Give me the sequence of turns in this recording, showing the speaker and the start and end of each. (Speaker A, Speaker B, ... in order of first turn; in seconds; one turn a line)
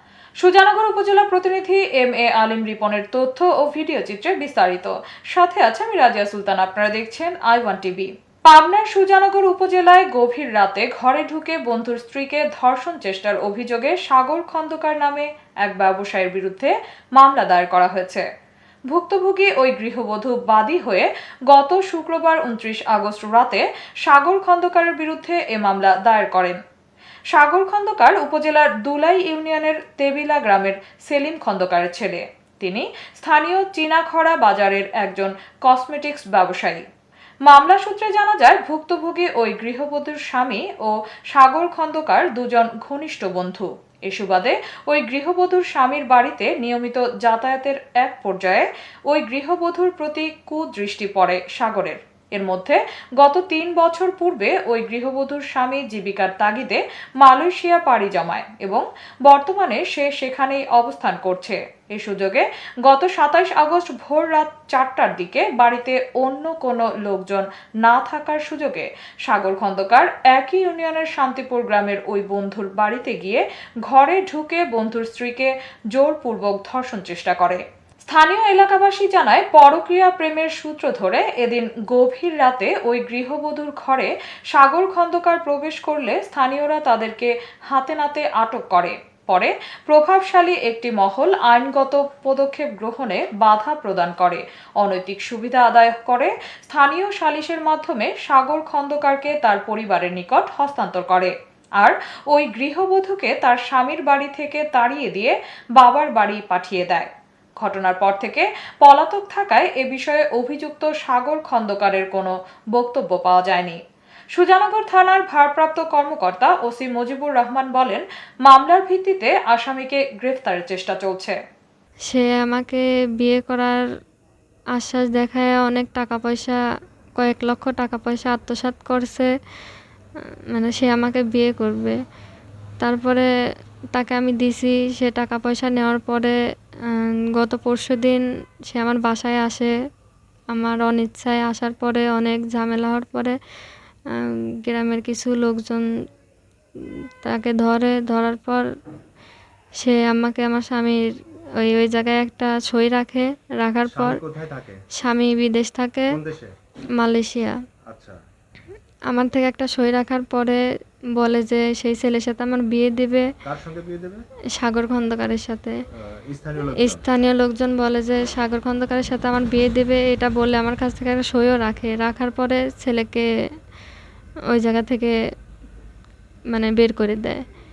Speaker A: 0.4-18.2
Speaker A: 18.9-26.6
Speaker A: 27.3-36.8
Speaker A: 37.5-113.8
Speaker A: 114.3-121.4
Speaker B: 122.1-123.8
Speaker B: 124.8-126.6
Speaker B: 127.2-129.3
Speaker B: 130.5-132.0
Speaker B: 132.8-133.3
Speaker B: 133.9-136.3
Speaker B: 136.9-139.7
Speaker B: 140.5-143.3
Speaker B: 144.1-145.9
Speaker B: 147.2-148.6
Speaker B: 149.8-151.0
Speaker B: 151.6-154.2
Speaker C: 153.8-154.8
Speaker B: 155.0-156.2
Speaker C: 156.1-156.5
Speaker B: 157.0-157.6
Speaker C: 157.9-158.2
Speaker B: 159.1-160.6
Speaker B: 161.2-163.3
Speaker C: 163.4-164.2
Speaker B: 164.6-165.8
Speaker C: 166.1-167.1
Speaker B: 166.8-173.2
Speaker B: 174.5-175.1
Speaker B: 176.5-177.4